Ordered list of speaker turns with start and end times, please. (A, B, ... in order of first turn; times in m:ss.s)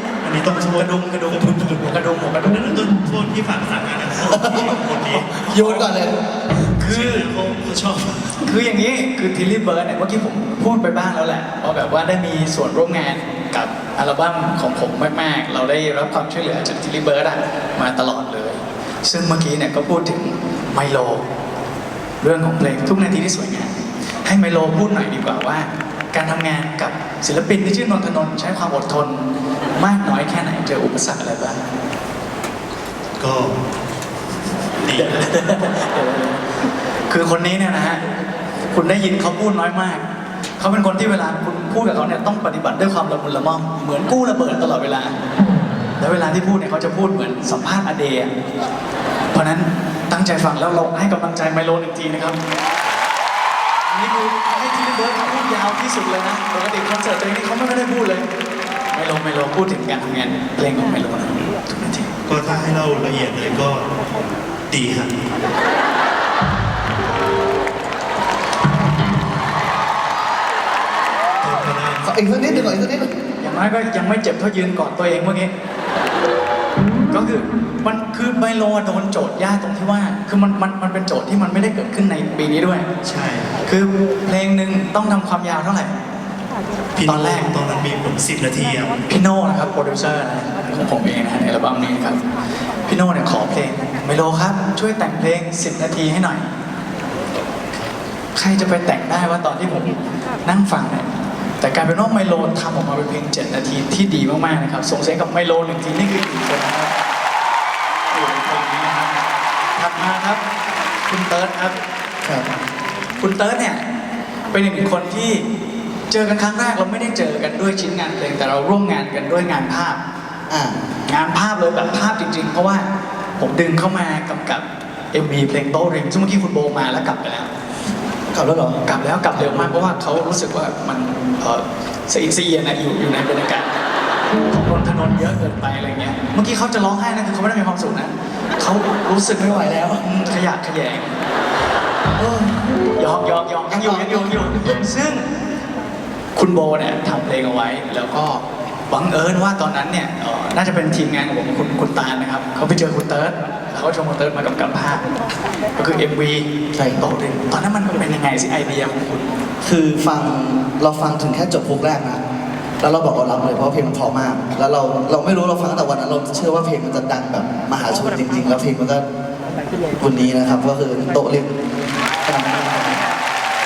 0:00.2-0:01.8 A
0:00.4-0:02.8 B
0:02.4-0:05.9 A
0:04.3-0:04.8 C
0:05.1-0:05.8 B
0:05.4-0:06.1 C
0:06.8-0:07.3 B
0:06.8-0:08.4 A
0:08.4-0:21.2 B
0:22.2-0:23.7 B
0:24.2-0:31.6 B
0:33.2-0:33.6 A
0:34.8-0:35.3 A
0:34.9-0:36.4 B
0:37.1-0:38.0 B
0:38.7-0:40.0 B
0:40.6-0:45.1 B
0:46.0-0:48.3 B
0:49.3-0:52.4 B
0:53.9-0:58.2 B
0:58.9-1:02.1 B
1:02.2-1:03.9 A
1:04.7-1:05.1 A
1:11.4-1:12.7 A
1:12.0-1:13.1 C
1:13.4-1:15.5 B
1:17.1-1:22.8 B
1:23.0-1:23.6 A
1:23.6-1:25.9 B
1:26.9-1:28.9 A
1:27.0-1:27.5 B
1:29.1-1:32.2 B
1:32.9-1:36.4 B
1:38.3-1:41.0 B
1:41.6-1:46.9 B
1:48.1-1:49.2 B
1:49.8-1:50.4 B
1:51.1-1:51.8 B
1:52.2-1:52.5 C
1:53.2-1:53.8 B
1:54.5-1:55.4 B
1:56.1-2:00.0 B
2:00.5-2:00.8 C
2:01.0-2:02.8 B
2:03.4-2:07.5 B
2:08.3-2:08.8 C
2:08.8-2:13.7 B
2:14.5-2:21.2 B
2:19.4-2:20.0 C
2:22.2-2:22.6 C
2:23.0-2:25.2 B
2:23.7-2:24.4 C
2:26.3-2:35.1 B
2:35.8-2:36.4 B
2:36.7-2:37.0 C
2:37.0-2:39.2 B
2:39.6-2:42.2 C
2:42.8-2:49.0 C
2:50.0-2:51.5 C
2:52.2-2:53.0 C